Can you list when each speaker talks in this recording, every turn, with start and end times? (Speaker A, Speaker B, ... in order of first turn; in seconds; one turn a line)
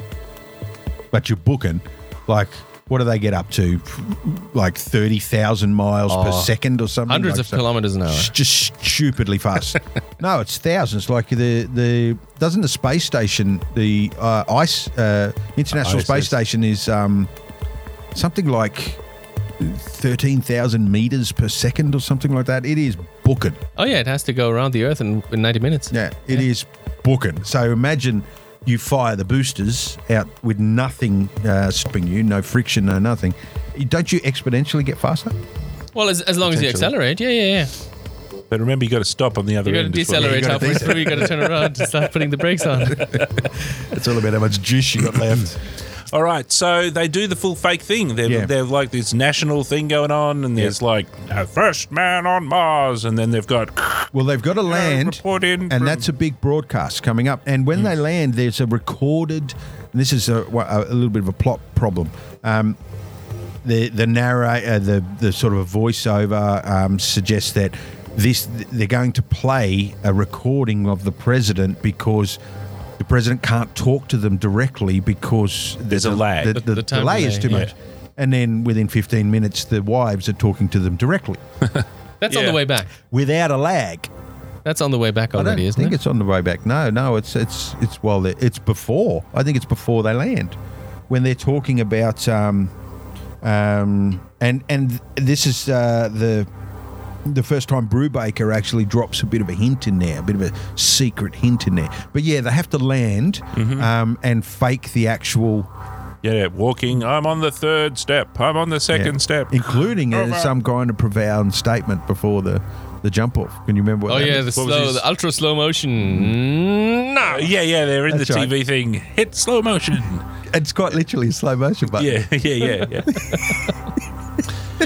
Speaker A: 1.1-17.3
Speaker B: 6.1-6.5
Speaker B: 7.1-8.3
Speaker C: 15.8-16.3
Speaker A: 18.1-19.0
Speaker A: 19.6-23.6
Speaker B: 23.8-26.4
Speaker A: 25.9-35.4
Speaker B: 35.9-37.7
Speaker C: 38.5-41.4
Speaker B: 39.6-43.2
Speaker A: 40.1-41.5
Speaker A: 43.1-45.6
Speaker C: 46.1-54.1
Speaker A: 48.2-48.5
Speaker A: 54.1-62.8
Speaker C: 54.6-56.0
Speaker A: 63.6-72.4
Speaker A: 73.0-81.4
Speaker C: 75.9-76.6
Speaker B: 76.5-77.7
Speaker B: 82.2-82.9
Speaker C: 82.3-82.6
Speaker A: 83.1-84.1
Speaker B: 84.6-86.0
Speaker A: 85.3-90.5
Speaker A: 91.1-92.7
Speaker A: 93.4-96.5
Speaker A: 97.2-105.7
Speaker C: 103.5-103.9
Speaker C: 106.2-110.5
Speaker A: 108.9-114.5
Speaker B: 114.1-117.5
Speaker C: 114.3-115.0
Speaker C: 117.2-120.2
Speaker A: 118.1-118.5
Speaker A: 120.5-123.4
Speaker C: 122.0-123.7